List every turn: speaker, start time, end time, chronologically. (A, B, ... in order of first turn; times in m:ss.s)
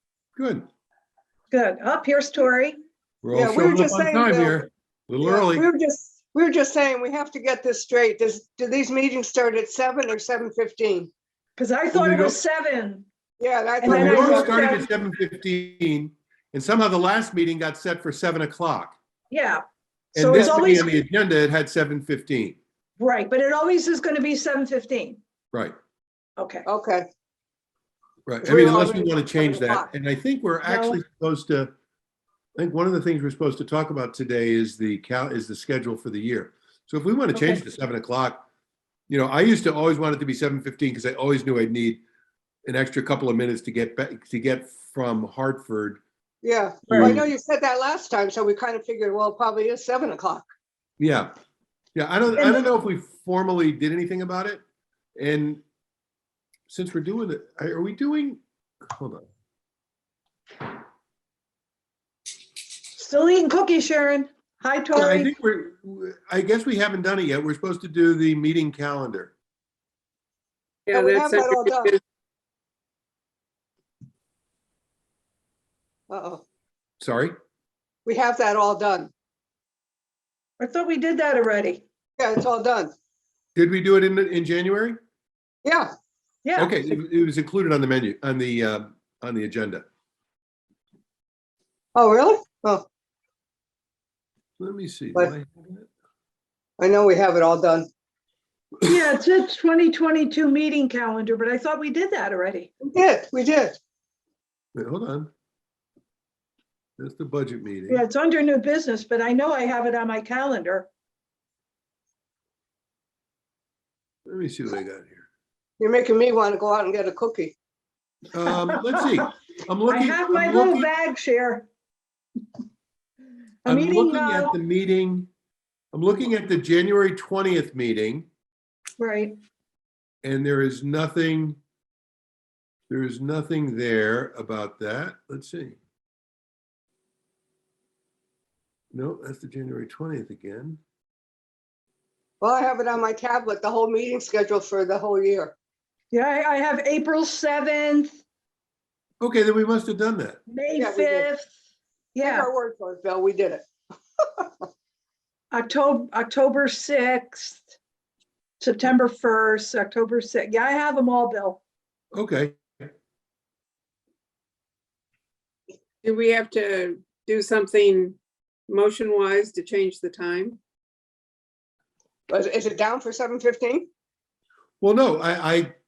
0:00.4-0:00.6 A
0:01.5-0:02.8 B
0:03.2-0:05.7 A
0:03.3-0:04.6 C
0:05.2-0:11.1 C
0:11.6-0:13.0 B
0:11.9-0:12.4 A
0:13.4-0:14.6 C
0:13.8-0:14.8 B
0:13.8-0:18.9 A
0:19.3-0:19.6 B
0:20.1-0:21.0 B
0:20.1-0:22.6 A
0:23.0-0:25.2 B
0:26.4-0:26.6 B
0:26.6-0:27.1 C
0:28.2-0:31.7 A
0:28.4-0:29.9 C
0:30.6-0:31.0 B
0:32.6-0:38.4 A
0:37.3-0:37.6 B
0:39.1-0:42.0 A
0:42.6-0:46.0 A
0:46.4-0:50.5 C
0:46.9-0:47.3 A
0:51.0-0:51.3 A
0:51.9-0:54.6 A
0:55.2-0:55.6 A
0:56.7-0:59.3 A
1:02.9-1:05.3 B
1:04.9-1:09.3 A
1:10.9-1:11.9 D
1:10.9-1:11.9 C
1:16.1-1:16.4 C
1:17.0-1:17.3 A
1:18.0-1:19.1 C
1:20.6-1:21.8 B
1:22.2-1:22.9 C
1:23.5-1:25.0 A
1:25.6-1:25.9 C
1:26.4-1:26.7 B
1:26.6-1:29.8 A
1:31.9-1:32.9 C
1:34.6-1:35.9 A
1:36.8-1:37.9 C
1:38.8-1:42.7 B
1:42.8-1:43.8 C
1:44.7-1:45.3 A
1:47.0-1:48.0 A
1:47.9-1:50.9 B
1:54.2-1:55.2 A
1:55.8-1:57.6 C
1:58.3-2:00.9 A
1:58.5-1:59.1 B
1:59.9-2:01.7 B
2:03.6-2:04.6 B
2:03.6-2:05.3 A
2:05.9-2:08.2 A
2:09.0-2:09.3 B
2:10.2-2:11.6 A
2:12.9-2:15.8 A
2:18.9-2:20.8 A
2:22.4-2:25.5 C
2:26.1-2:28.2 B
2:29.2-2:30.4 A
2:30.5-2:31.5 B
2:30.8-2:31.3 C
2:32.1-2:32.5 B
2:32.2-2:33.6 C
2:35.5-2:37.8 B
2:38.6-2:41.6 B
2:42.1-2:42.6 A
2:46.0-2:48.2 D
2:48.7-2:50.6 D
2:52.3-2:53.9 C
2:54.8-2:55.7 A